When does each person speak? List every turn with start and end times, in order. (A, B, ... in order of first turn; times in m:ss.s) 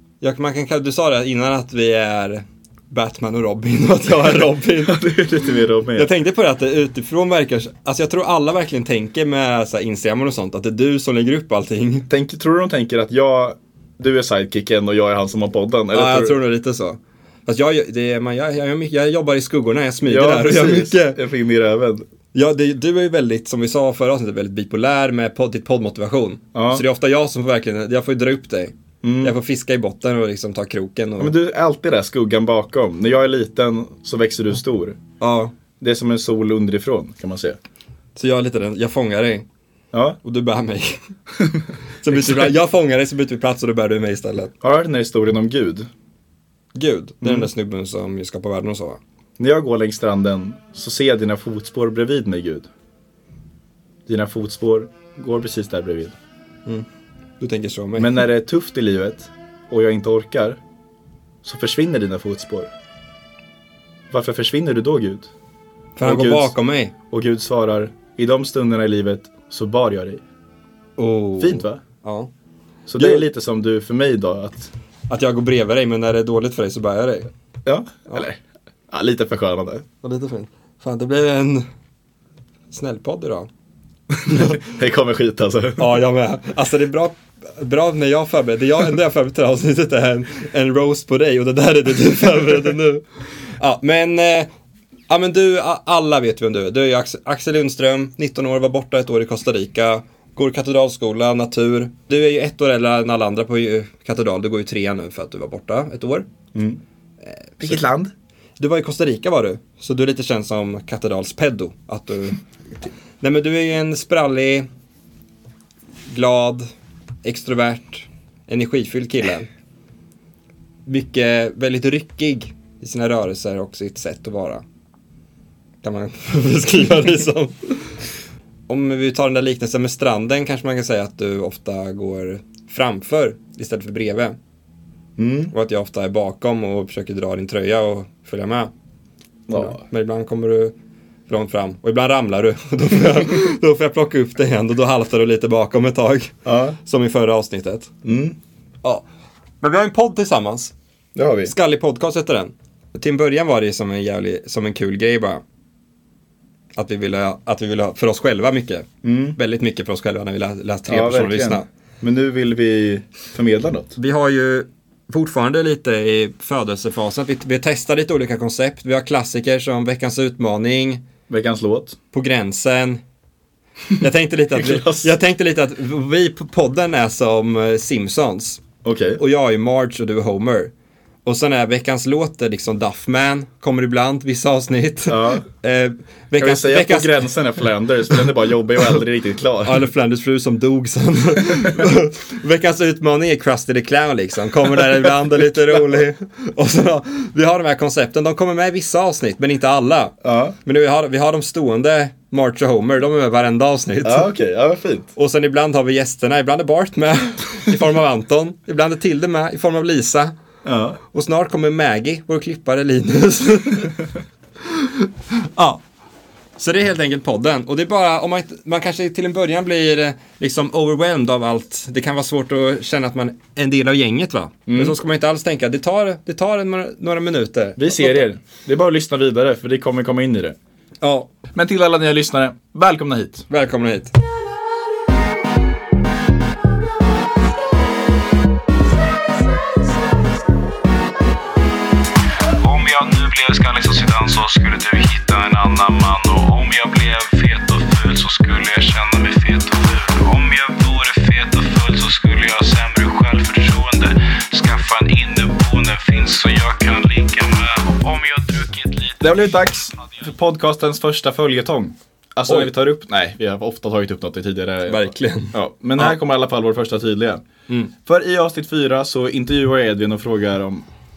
0:00.2-0:05.0 A
0:04.8-0:06.1 B
0:05.9-0:12.1 A
0:12.1-0:16.4 B
0:15.9-0:21.2 A
0:20.0-0:22.1 B
0:22.3-0:31.3 A
0:26.5-0:26.8 B
0:29.0-0:29.3 B
0:31.2-0:35.0 B
0:35.2-0:35.5 A
0:35.8-0:37.6 B
0:38.2-0:39.4 A
0:39.9-0:40.2 B
0:40.2-0:41.0 A
0:42.0-0:44.5 A
0:42.1-0:42.5 B
0:44.6-0:45.9 B
0:46.7-0:49.0 A
0:47.2-0:47.5 B
0:49.4-0:52.7 B
0:54.0-0:56.2 B
0:57.4-0:58.2 A
0:58.0-1:00.6 B
1:01.4-1:02.7 B
1:04.1-1:05.3 B
1:06.0-1:06.9 A
1:06.0-1:06.5 B
1:07.1-1:10.2 B
1:11.0-1:12.3 A
1:11.4-1:11.8 B
1:12.9-1:14.7 B
1:13.0-1:13.2 A
1:15.1-1:17.3 A
1:17.6-1:18.4 B
1:18.9-1:19.8 B
1:20.0-1:21.7 A
1:22.7-1:23.5 A
1:24.2-1:25.9 B
1:24.3-1:24.6 A
1:25.8-1:34.5 A
1:35.1-1:46.3 A
1:46.5-1:46.8 B
1:47.2-1:47.8 A
1:47.6-1:48.1 B
1:48.6-1:54.7 A
1:56.1-1:56.7 A
1:57.2-1:59.5 A
2:00.8-2:04.6 A
2:05.8-2:08.0 A
2:08.7-2:14.4 A
2:15.2-2:15.5 B
2:15.5-2:18.7 A
2:19.5-2:19.8 B
2:19.5-2:20.7 A
2:21.3-2:27.9 A
2:26.4-2:26.8 B
2:28.0-2:28.4 B
2:29.6-2:30.7 A
2:31.1-2:31.5 B
2:31.4-2:35.4 A
2:36.7-2:41.6 A
2:39.0-2:39.4 B
2:40.9-2:43.9 B
2:44.0-2:51.0 A
2:51.3-2:52.0 B
2:52.1-2:53.0 A
2:54.0-2:58.6 A
2:54.5-2:55.1 B
2:58.8-2:59.2 B
2:59.2-3:00.7 A
3:01.2-3:07.3 A
3:05.0-3:05.4 B
3:06.4-3:09.8 B
3:09.6-3:24.3 A
3:20.2-3:20.5 B
3:24.0-3:25.1 B
3:25.2-3:30.3 A
3:30.6-3:31.0 B
3:31.1-3:34.0 A
3:34.6-3:35.8 A
3:36.6-3:48.2 A
3:44.7-3:45.0 B
3:47.8-3:50.6 B
3:51.0-3:51.3 A
3:51.5-3:53.5 B
3:53.5-3:54.1 A
4:02.6-4:19.6 C
4:19.2-4:27.4 B
4:24.9-4:26.2 A
4:28.0-4:30.8 B